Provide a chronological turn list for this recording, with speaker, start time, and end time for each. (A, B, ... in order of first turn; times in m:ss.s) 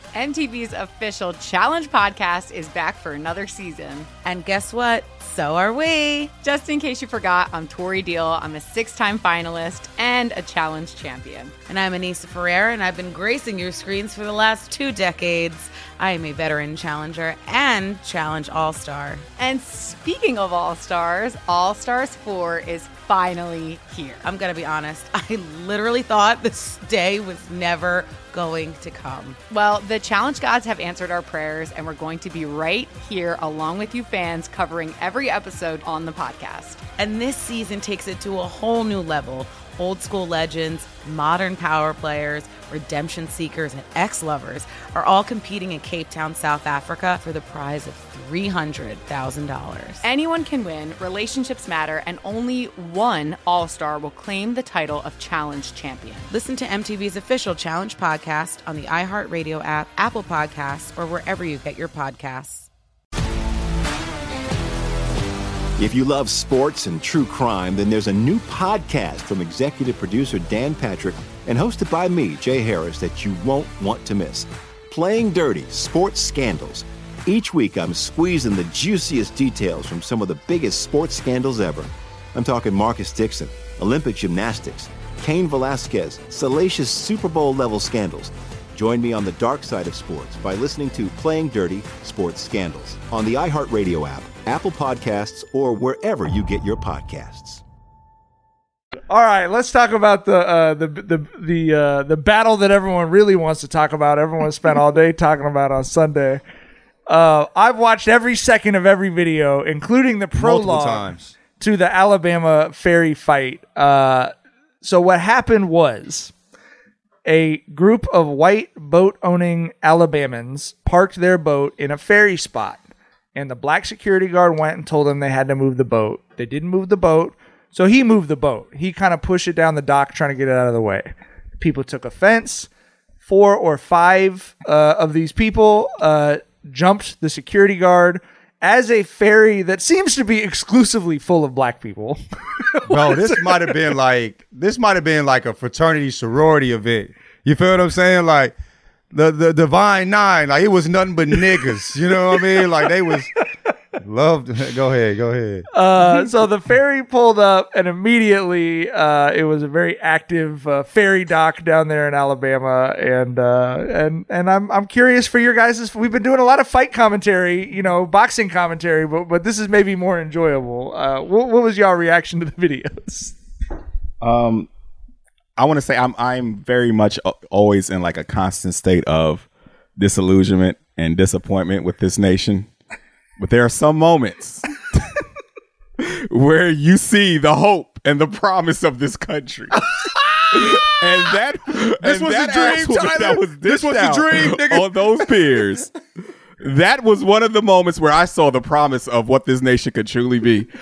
0:00.1-0:04.1 A
0:04.2-0:06.3 B
0:06.4-0:11.5 A
0:11.7-0:19.2 B
0:19.4-0:24.2 A
0:24.2-0:29.4 B
0:29.5-0:36.8 A
0:37.0-0:50.0 B
0:50.0-0:56.3 A
0:56.3-1:02.7 B
1:05.8-1:37.6 C
1:39.1-1:46.4 D
1:47.1-1:56.3 D
1:50.4-1:51.3 E
1:57.2-2:02.8 D
2:03.3-2:12.7 D
2:13.2-2:23.7 D
2:22.9-2:28.5 E
2:29.1-2:33.3 E
2:34.0-2:35.7 E
2:35.7-2:53.3 D
2:54.2-2:54.7 F
2:55.6-3:02.7 F
3:03.4-3:04.6 F
3:06.0-3:09.8 F
3:10.5-3:15.9 F
3:12.0-3:15.8 E
3:16.6-3:20.7 F